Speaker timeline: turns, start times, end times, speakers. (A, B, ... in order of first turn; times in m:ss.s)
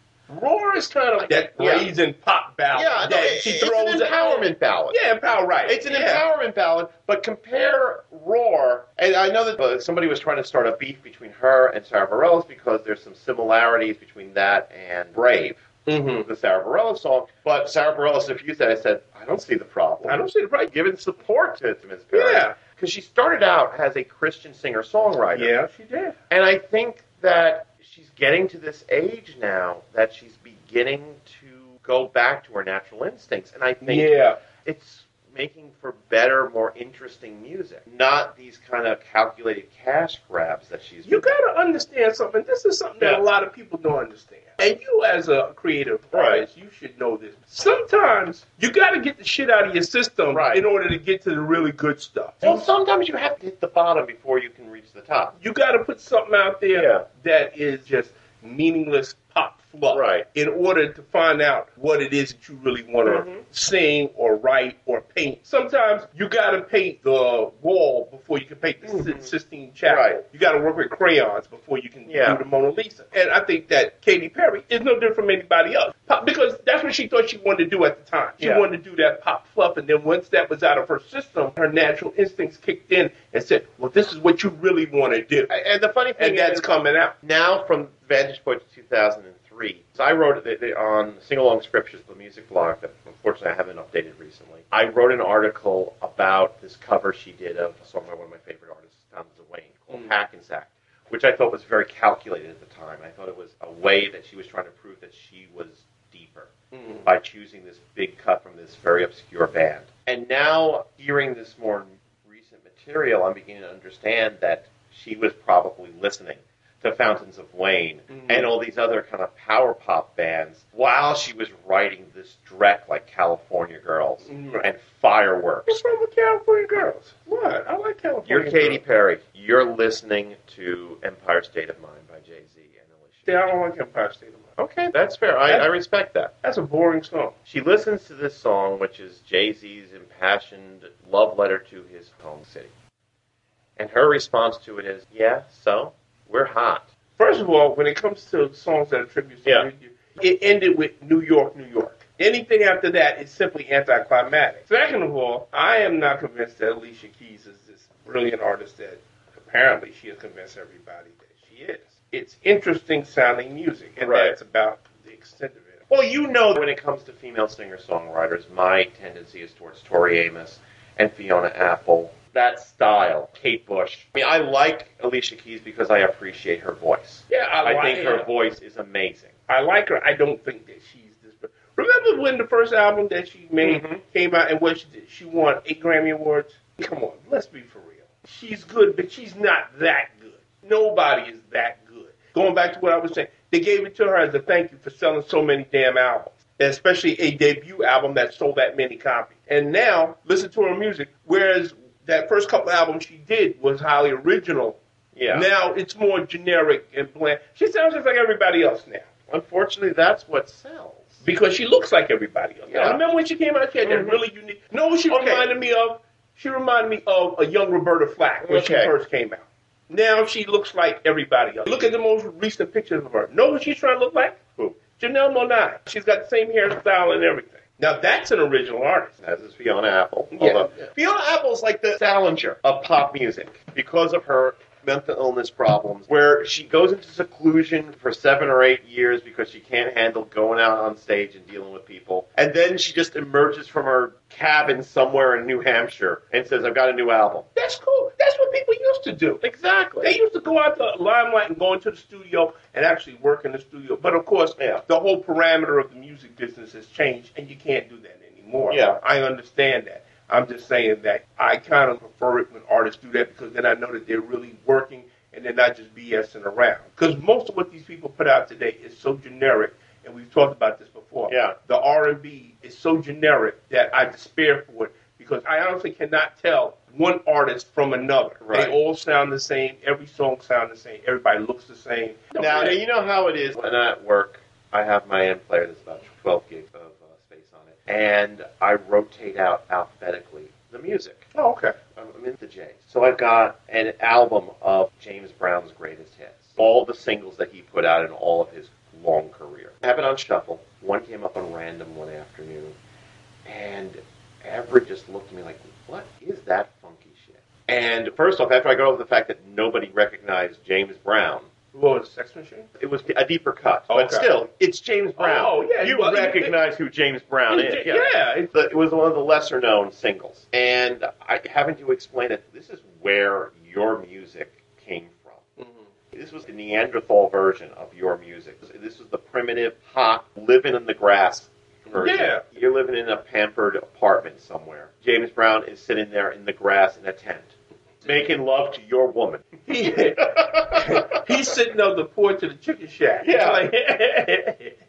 0:00.3-0:06.2 A
0:01.2-0:01.9 B
0:02.7-0:05.0 B
0:05.7-0:15.7 B
0:15.9-0:16.3 A
0:16.2-0:25.5 B
0:20.0-0:20.7 A
0:22.1-0:22.6 A
0:25.3-0:26.2 A
0:26.3-0:41.3 B
0:33.8-0:34.4 A
0:41.1-0:52.7 A
0:46.1-0:46.4 B
0:50.3-0:50.6 B
0:52.4-0:55.4 B
0:55.4-1:25.5 A
0:56.7-0:57.1 B
0:59.9-1:00.3 B
1:03.1-1:03.4 B
1:08.9-1:09.4 B
1:09.9-1:10.2 B
1:12.1-1:12.4 B
1:18.4-1:18.7 B
1:25.5-1:26.6 B
1:26.2-1:27.2 A
1:27.2-1:46.5 B
1:46.7-1:47.1 A
1:47.0-2:05.8 B
1:58.1-1:58.5 A
2:04.2-2:04.7 A
2:05.7-2:08.8 A
2:08.3-2:13.3 B
2:13.3-2:14.5 A
2:14.6-2:16.3 B
2:16.4-2:17.3 A
2:17.5-2:22.7 B
2:23.8-2:26.9 B
2:27.2-2:45.8 A
2:44.0-2:44.4 B
2:45.9-2:59.4 B
2:57.3-2:58.3 A
2:59.5-3:24.8 A
3:03.6-3:04.0 B
3:25.2-3:25.5 B
3:25.3-3:29.1 A
3:29.3-3:31.2 B
3:31.2-3:44.4 A
3:32.7-3:33.0 B
3:33.8-3:34.2 B
3:35.1-3:35.5 B
3:38.4-3:38.9 B
3:44.9-3:49.2 A
3:49.2-4:07.5 B
3:50.3-3:50.9 A
4:07.6-4:09.4 A
4:09.4-4:10.2 B
4:10.0-4:42.8 A
4:14.6-4:14.8 B
4:18.7-4:19.0 B
4:31.3-4:31.6 B
4:38.4-4:38.7 B
4:42.4-4:51.3 B
4:51.4-4:51.8 A
4:52.0-5:02.8 B
5:03.4-5:11.5 B
5:11.7-5:12.7 A
5:12.8-5:25.5 B
5:13.9-5:14.3 A
5:15.2-5:16.6 A
5:17.5-5:18.5 A
5:25.6-5:25.9 A
5:26.1-5:37.5 B
5:31.9-5:32.4 A
5:38.0-5:41.3 B
5:39.7-5:44.8 A
5:43.2-5:43.7 B